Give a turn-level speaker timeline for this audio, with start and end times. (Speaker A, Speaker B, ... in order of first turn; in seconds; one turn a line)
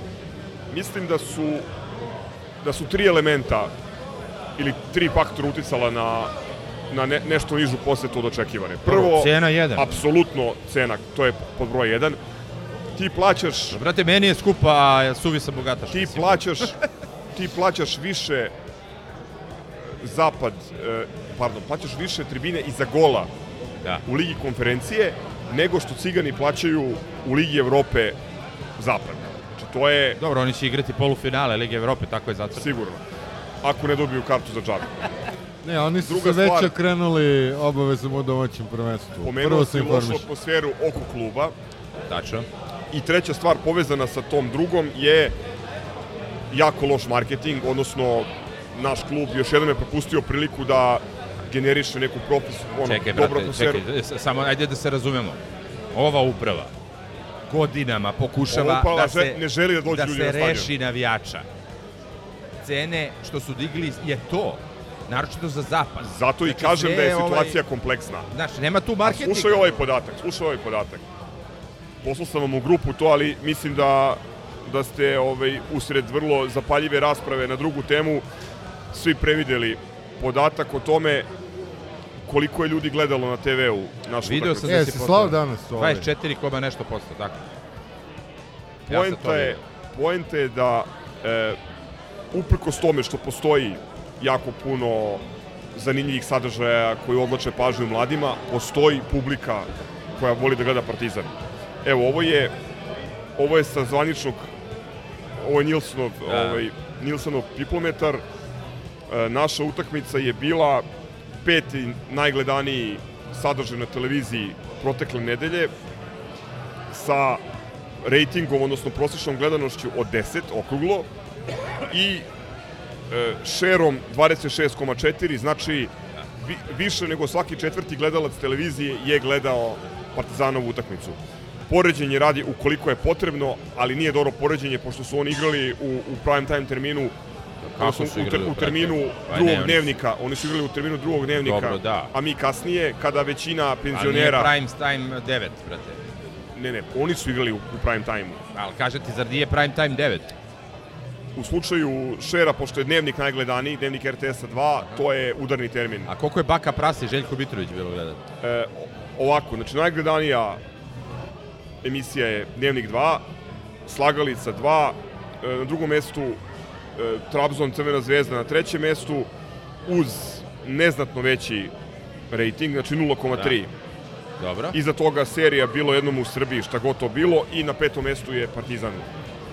Speaker A: 0.7-1.6
Speaker A: 2.6-3.7
Speaker A: 4.6-6.3
Speaker A: 6.9-12.2
Speaker B: 8.8-9.9
Speaker A: 12.9-13.8
Speaker B: 13.7-16.7
Speaker A: 15.9-16.7
Speaker A: 17.4-18.5
Speaker A: 20.0-23.3
Speaker A: 24.1-28.2
Speaker A: 28.8-30.2
Speaker B: 30.2-32.6
Speaker A: 32.6-33.0
Speaker A: 33.6-34.9
Speaker C: 35.6-40.2
Speaker A: 36.0-36.7
Speaker A: 39.2-41.5
Speaker B: 42.1-42.5
Speaker A: 42.9-45.3
Speaker A: 46.5-53.8
Speaker B: 52.9-55.4
Speaker B: 55.9-56.7
Speaker B: 57.5-61.4
Speaker A: 58.5-60.7
Speaker B: 62.6-67.6
Speaker A: 66.0-68.3
Speaker B: 68.3-69.8
Speaker A: 69.0-71.0
Speaker A: 72.0-78.2
Speaker A: 78.9-81.3
Speaker A: 82.3-84.7
Speaker B: 84.2-87.4
Speaker C: 84.6-86.1
Speaker A: 88.9-91.6
Speaker B: 88.9-89.6
Speaker A: 92.3-95.2
Speaker A: 95.7-101.3
Speaker A: 101.8-102.5
Speaker A: 103.4-104.5
Speaker A: 105.4-108.2
Speaker B: 106.3-106.6
Speaker A: 109.1-110.8
Speaker A: 111.4-115.7
Speaker A: 116.9-117.4
Speaker A: 118.0-121.1
Speaker A: 121.9-122.2
Speaker A: 123.1-131.2
Speaker A: 131.7-137.1
Speaker B: 137.6-139.8
Speaker A: 137.8-144.5
Speaker B: 141.4-142.1
Speaker B: 143.9-146.0
Speaker A: 146.6-148.4
Speaker B: 148.5-150.3
Speaker A: 151.3-156.1
Speaker B: 156.1-158.2
Speaker A: 158.4-160.6
Speaker A: 161.8-163.2
Speaker A: 163.9-166.4
Speaker A: 167.0-169.3
Speaker A: 169.9-171.7
Speaker A: 172.3-173.7
Speaker B: 174.4-174.8
Speaker A: 174.7-179.1